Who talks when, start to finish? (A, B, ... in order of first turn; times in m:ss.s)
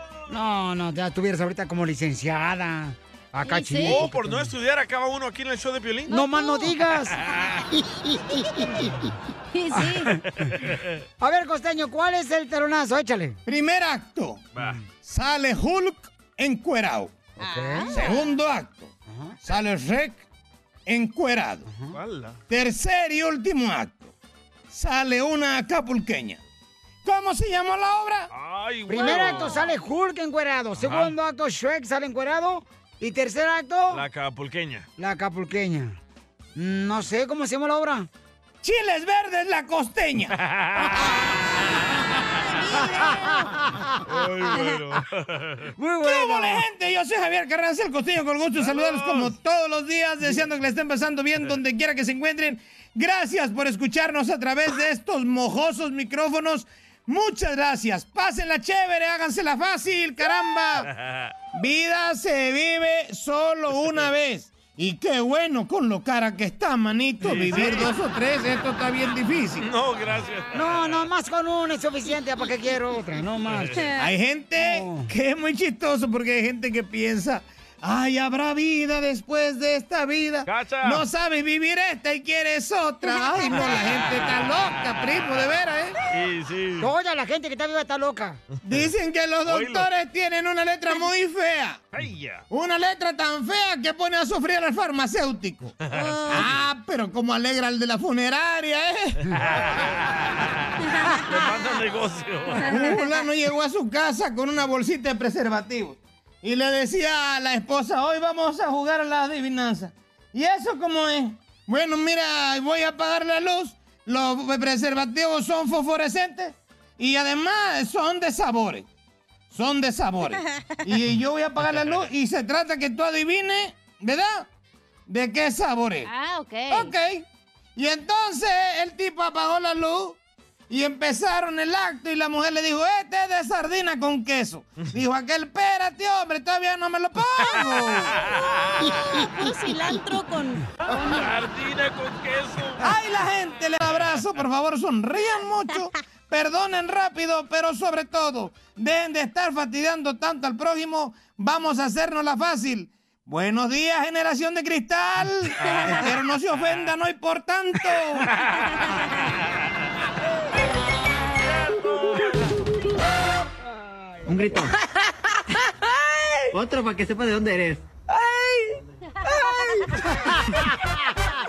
0:00.3-0:04.5 A
0:03.4-0:04.0 B
0:03.8-0:06.2 C
0:06.1-0:06.7 B
0:06.1-0:07.2 A
0:07.3-0:07.6 C
0:07.7-0:09.1 A
0:09.5-0:10.2 B
0:09.8-0:10.2 A
0:10.4-0:11.0 C
0:11.2-0:13.4 A
0:13.5-0:14.5 D
0:15.0-0:17.1 D
0:17.4-0:17.9 B
0:17.4-0:18.2 A
0:17.9-0:20.2 D
0:19.1-0:19.4 A
0:20.9-0:21.7 D
0:21.7-0:22.0 A
0:21.9-0:22.4 C
0:22.5-0:24.1 D
0:24.7-0:26.4 D
0:27.0-0:28.3 D
0:28.3-0:29.7 C
0:28.9-0:34.0 A
0:29.2-0:29.5 B
0:30.8-0:31.2 C
0:33.9-0:34.9 C
0:35.0-0:36.0 A
0:36.6-0:38.1 A
0:38.6-0:40.4 D
0:40.4-0:41.1 C
0:42.3-0:43.6 B
0:42.8-0:44.2 A
0:44.1-0:45.7 C
0:45.8-0:46.6 A
0:46.0-1:00.9 D
0:48.6-0:49.3 C
1:01.5-1:09.7 D
1:07.2-1:07.9 C
1:09.6-1:11.1 C
1:10.5-1:13.9 A
1:13.4-1:13.8 C
1:13.7-1:14.1 B
1:14.0-1:26.0 D
1:14.6-1:15.1 A
1:20.5-1:21.0 C
1:23.6-1:24.3 C
1:26.1-1:26.9 C
1:26.8-1:28.4 A
1:28.5-1:28.9 C
1:28.6-1:31.8 D
1:29.5-1:29.9 C
1:31.9-1:32.4 C
1:32.5-1:35.8 D
1:35.8-1:36.5 C
1:35.9-1:36.5 B
1:36.3-1:39.2 D
1:39.3-1:40.4 C
1:41.3-1:42.8 C
1:42.7-1:58.9 D
1:42.7-1:43.1 B
1:59.5-2:04.5 D
2:05.1-2:06.1 D
2:06.1-2:06.9 B
2:06.7-2:07.2 D
2:07.8-2:10.2 D
2:10.7-2:18.2 D
2:18.3-2:18.9 C
2:18.4-2:21.3 B
2:20.9-2:22.9 C
2:22.8-2:38.3 D
2:35.6-2:36.0 B
2:41.5-2:42.6 C
2:44.3-2:44.8 E
2:46.5-2:48.8 E
2:49.5-2:49.8 E
2:50.2-2:51.1 A